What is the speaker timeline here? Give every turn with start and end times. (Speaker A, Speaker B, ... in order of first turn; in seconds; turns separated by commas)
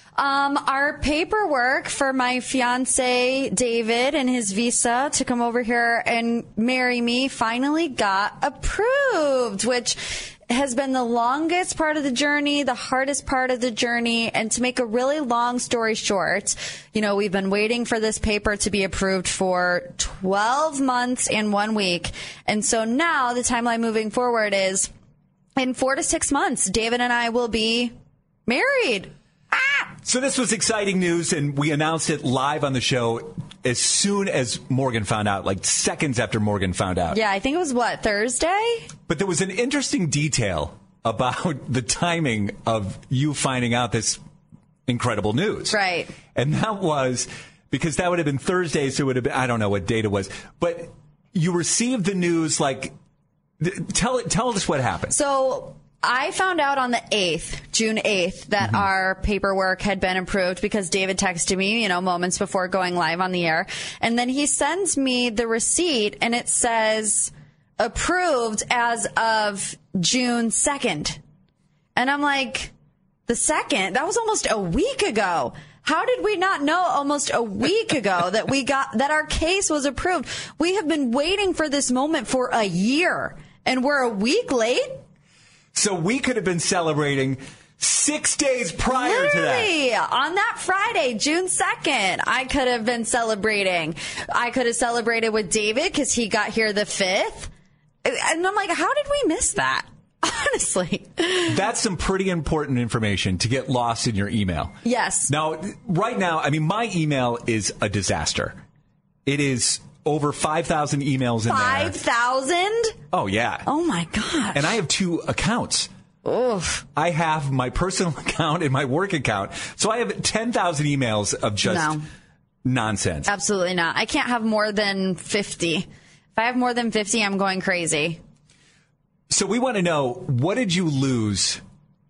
Speaker A: 0.2-24.9, Speaker A: 25.6-27.9, Speaker A: 28.5-29.8, Speaker B: 30.0-37.2, Speaker A: 37.1-38.9, Speaker B: 39.1-44.2, Speaker B: 44.9-45.8, Speaker A: 45.7-46.1, Speaker B: 46.4-52.9, Speaker B: 53.6-55.2, Speaker A: 55.1-71.2, Speaker A: 72.0-72.7, Speaker A: 73.3-85.0, Speaker B: 85.7-89.7, Speaker A: 88.9-97.5, Speaker A: 98.0-101.6, Speaker B: 101.5-104.8, Speaker A: 104.8-105.3, Speaker B: 105.3-108.6, Speaker B: 109.3-112.0, Speaker A: 111.5-113.0, Speaker B: 113.1-113.7, Speaker A: 113.7-114.7, Speaker B: 114.5-115.9, Speaker A: 116.2-116.8, Speaker B: 117.0-122.0, Speaker A: 121.7-122.0, Speaker B: 122.6-123.3, Speaker A: 123.3-128.2, Speaker B: 129.3-131.6